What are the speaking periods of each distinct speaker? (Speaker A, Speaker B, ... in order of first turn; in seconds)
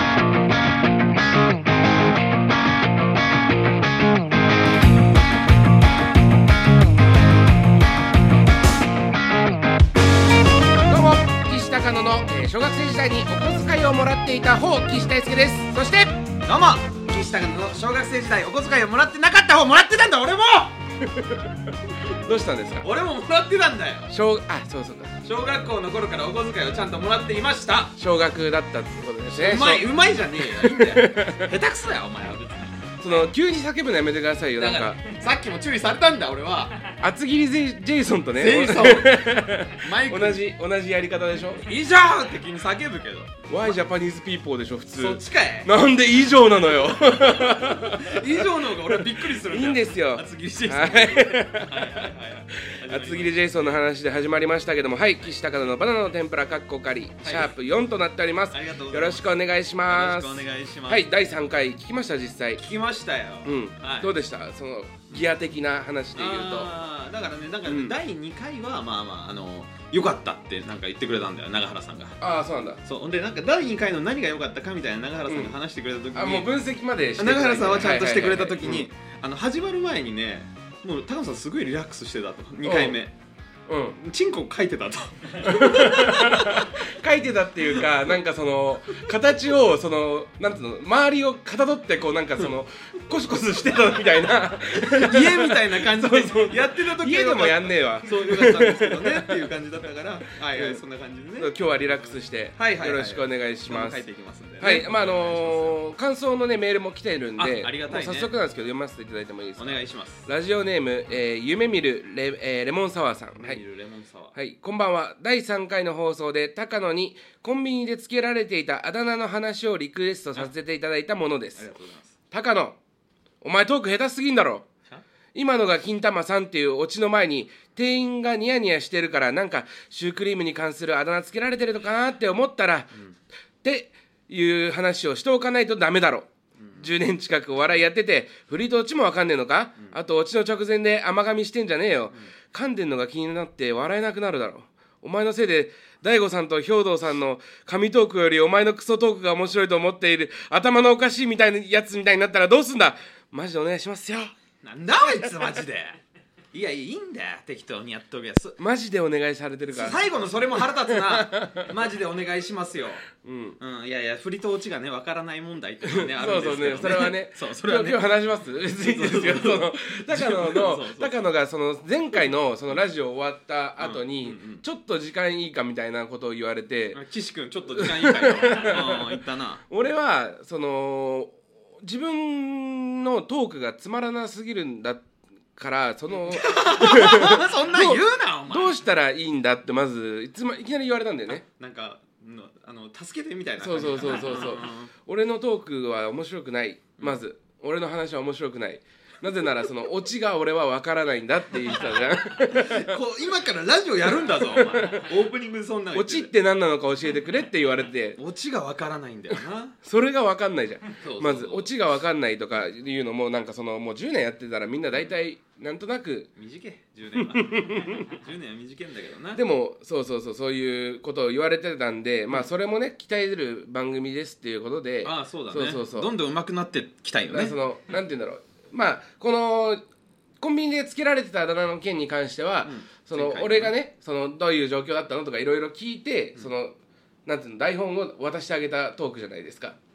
Speaker A: 10.9-16.1, 21.1-21.5, 22.2-22.9, 24.1-25.2, 28.0-29.9, 30.4-31.5, 33.0-35.0, 37.0-41.6, 43.5-48.4, 48.9-62.6, 63.4-66.7, 67.7-67.9, 72.2-72.8, 76.1-78.8, 82.6-83.0, 83.7-84.0, 85.4-99.5, 100.5-100.8, 101.4-104.0, 104.6-113.6, 114.3-121.7, 122.3-122.8, 123.4-124.7, 125.3-133.0, 133.6-154.3, 155.0-155.5, 158.6-160.0, 160.6-161.7, 163.2-163.6, 165.8-177.0, 177.8-179.2, 179.7-185.0, 185.6-191.4, 193.6-203.0, 204.3-205.1, 205.9-208.2, 209.8-216.3, 217.2-218.1, 219.3-226.1, 227.3-229.8, 230.4-236.7, 237.2-239.8
Speaker B: 16.4-20.8, 22.8-24.1, 25.2-27.9, 29.3-33.3, 34.6-36.8, 38.3-40.4, 41.6-43.7, 44.9-45.7, 47.1-53.7, 57.2-57.5, 58.5-59.3, 59.9-61.0, 62.6-64.1, 66.2-72.2, 72.8-76.5, 77.2-83.1, 84.0-86.8, 94.7-101.5, 102.6-105.8, 107.4-108.3, 109.6-110.3, 113.4-114.3, 121.6-122.1, 136.6-136.9, 154.6-156.0, 156.5-158.6, 159.7-163.0, 163.6-168.0, 168.8-171.1, 173.8-174.6, 176.9-179.6, 186.3-188.8, 191.3-194.9, 202.5-206.3, 208.2-209.8, 211.0-211.7, 216.4-219.4, 225.0-227.6, 232.6-233.7